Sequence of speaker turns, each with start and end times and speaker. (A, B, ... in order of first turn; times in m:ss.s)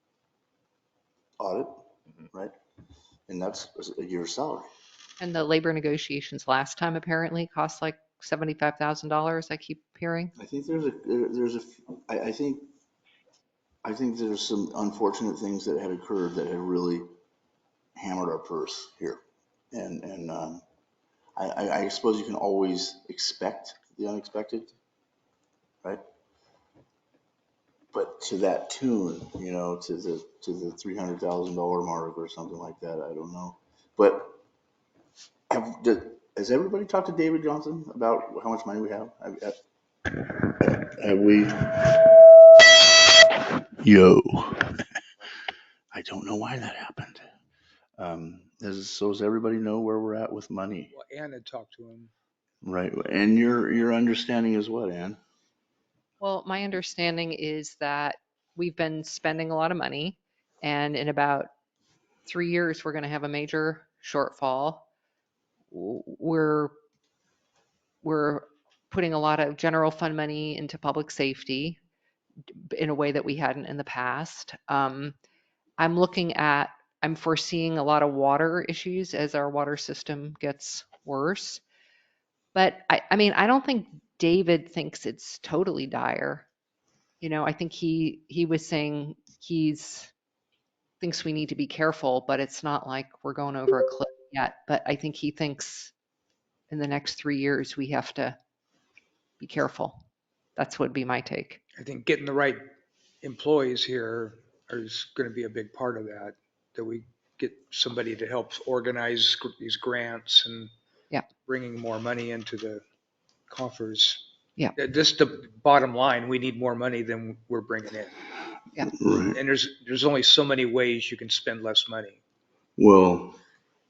0:01.4-0:01.7 A
0:03.3-0:04.7 A
0:05.2-0:10.3 B
0:10.4-0:12.7 A
0:13.8-0:17.1 A
0:18.0-0:19.2 A
0:19.7-0:20.6 A
0:21.4-0:24.7 A
0:27.9-0:34.4 A
0:35.5-0:39.6 A
0:40.1-0:42.1 A
0:43.8-0:44.8 A
0:45.9-0:47.2 A
0:48.0-0:50.9 A
0:50.9-0:52.1 C
0:52.6-0:55.2 A
0:56.2-1:01.5 B
1:02.2-1:04.9 B
1:05.7-1:06.7 B
1:08.0-1:11.8 B
1:12.6-1:15.2 B
1:15.8-1:21.6 B
1:22.5-1:26.5 B
1:27.2-1:30.1 B
1:31.0-1:35.9 B
1:36.7-1:38.4 B
1:39.4-1:40.0 B
1:40.6-1:41.6 B
1:41.8-1:42.6 C
1:43.2-1:50.7 C
1:51.4-1:52.8 C
1:53.5-1:54.2 C
1:54.8-1:58.2 C
1:58.9-1:59.4 A
1:59.3-2:02.2 C
2:02.8-2:03.4 A